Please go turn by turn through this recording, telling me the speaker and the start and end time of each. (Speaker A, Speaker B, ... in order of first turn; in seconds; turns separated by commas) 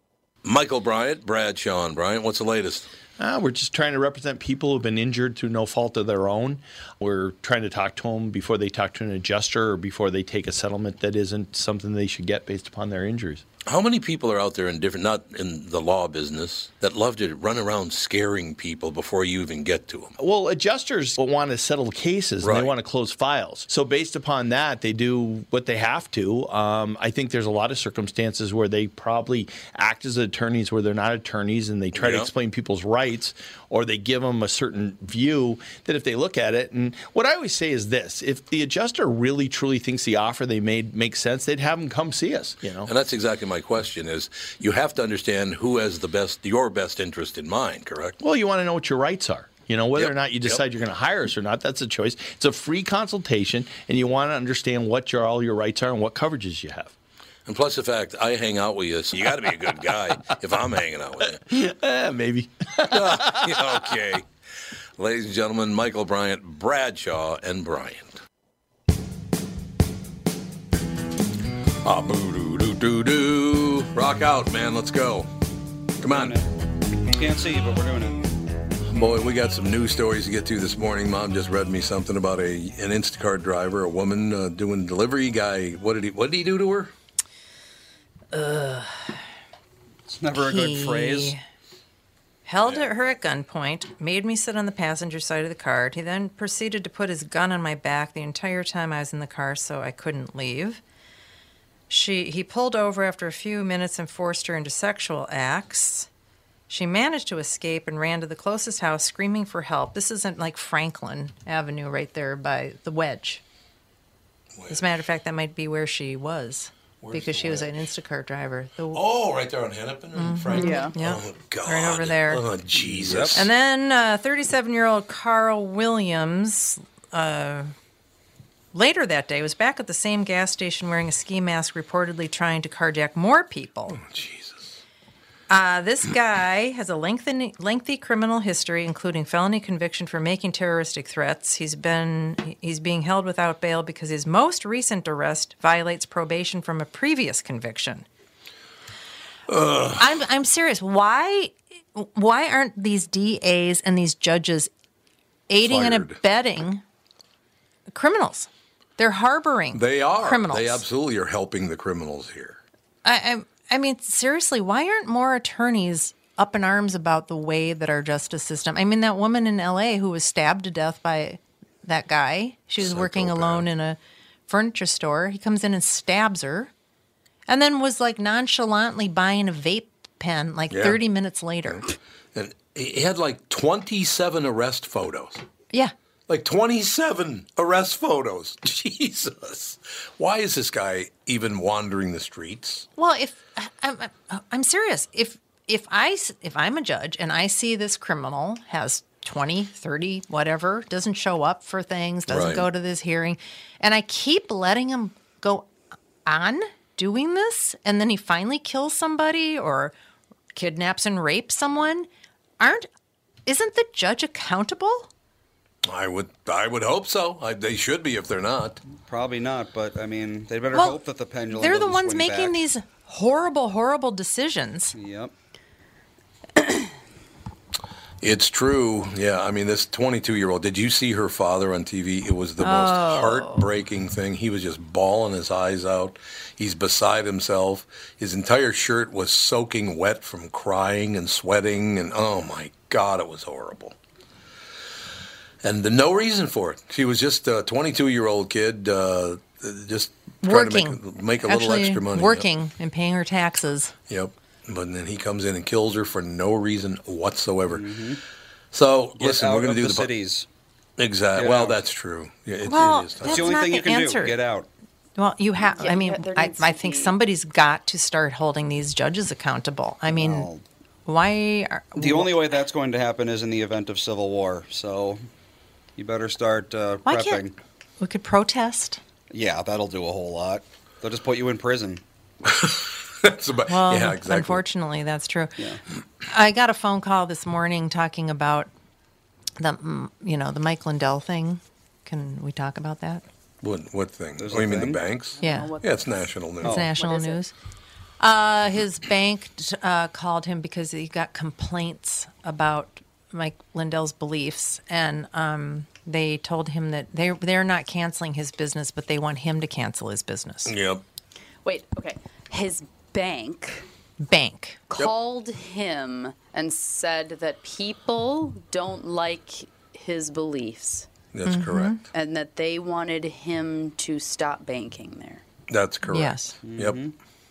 Speaker A: 0.4-2.9, Speaker B: 3.2-13.4, Speaker A: 13.7-20.1, Speaker B: 20.2-42.9, Speaker A: 22.4-22.7, Speaker A: 31.9-32.3, Speaker A: 42.8-48.2, Speaker B: 48.2-56.9, Speaker A: 50.0-50.6, Speaker A: 57.5-61.4, Speaker B: 61.4-63.9, Speaker A: 62.9-64.2, Speaker A: 65.0-68.2, Speaker A: 71.8-75.3, Speaker A: 76.0-76.3, Speaker C: 76.0-76.4, Speaker C: 77.1-78.2, Speaker A: 78.9-86.9, Speaker D: 88.3-89.2, Speaker C: 90.1-91.3, Speaker D: 90.3-91.4, Speaker D: 92.5-100.8, Speaker A: 92.6-92.9, Speaker D: 101.9-106.1, Speaker D: 106.7-113.4, Speaker A: 114.6-114.8, Speaker D: 114.7-119.0, Speaker A: 117.0-117.8, Speaker A: 118.9-123.5, Speaker D: 120.1-122.4, Speaker E: 120.5-120.9, Speaker C: 122.8-123.4, Speaker D: 123.3-127.7, Speaker D: 128.7-134.0, Speaker A: 133.9-134.8, Speaker D: 135.5-148.1, Speaker A: 149.5-150.1, Speaker D: 150.0-154.7, Speaker D: 155.5-156.8, Speaker A: 155.6-156.2, Speaker D: 157.9-160.8, Speaker A: 159.7-162.6, Speaker D: 163.0-176.7, Speaker A: 172.8-173.7, Speaker D: 177.5-181.8, Speaker A: 180.7-181.0, Speaker A: 182.3-185.4, Speaker A: 186.3-192.8, Speaker D: 192.9-205.7, Speaker A: 202.3-202.7, Speaker D: 206.2-209.9, Speaker D: 210.5-212.1, Speaker D: 212.6-212.9, Speaker D: 213.4-215.1, Speaker A: 215.8-218.8, Speaker C: 218.9-222.6, Speaker D: 221.5-224.9, Speaker C: 224.9-225.3, Speaker A: 228.2-243.9, Speaker D: 232.6-233.7, Speaker A: 245.6-252.4, Speaker D: 250.4-253.9, Speaker A: 254.1-257.9, Speaker C: 257.7-258.2, Speaker A: 258.7-260.1, Speaker C: 259.2-260.5, Speaker A: 261.0-263.6, Speaker C: 261.3-261.8, Speaker D: 262.6-264.4, Speaker C: 263.2-264.7, Speaker D: 265.1-270.5, Speaker E: 265.6-267.1, Speaker C: 270.1-270.6, Speaker D: 271.1-272.3, Speaker C: 271.9-275.2, Speaker C: 275.9-277.5, Speaker D: 277.0-277.4, Speaker D: 278.0-279.0, Speaker C: 279.3-282.0, Speaker A: 282.4-284.6, Speaker D: 283.7-285.6, Speaker D: 286.3-288.7, Speaker D: 289.6-293.2, Speaker A: 293.6-296.8, Speaker C: 294.4-295.0, Speaker E: 295.4-296.3, Speaker D: 295.4-295.7, Speaker C: 296.6-296.9, Speaker D: 296.6-297.5, Speaker E: 296.8-297.4, Speaker D: 298.2-310.7, Speaker A: 310.6-311.0, Speaker E: 311.6-313.8, Speaker D: 314.2-314.8, Speaker E: 314.9-321.1, Speaker A: 321.3-322.1, Speaker D: 321.4-322.0, Speaker E: 322.1-325.4, Speaker A: 325.7-327.0, Speaker D: 326.1-326.5, Speaker C: 326.6-327.1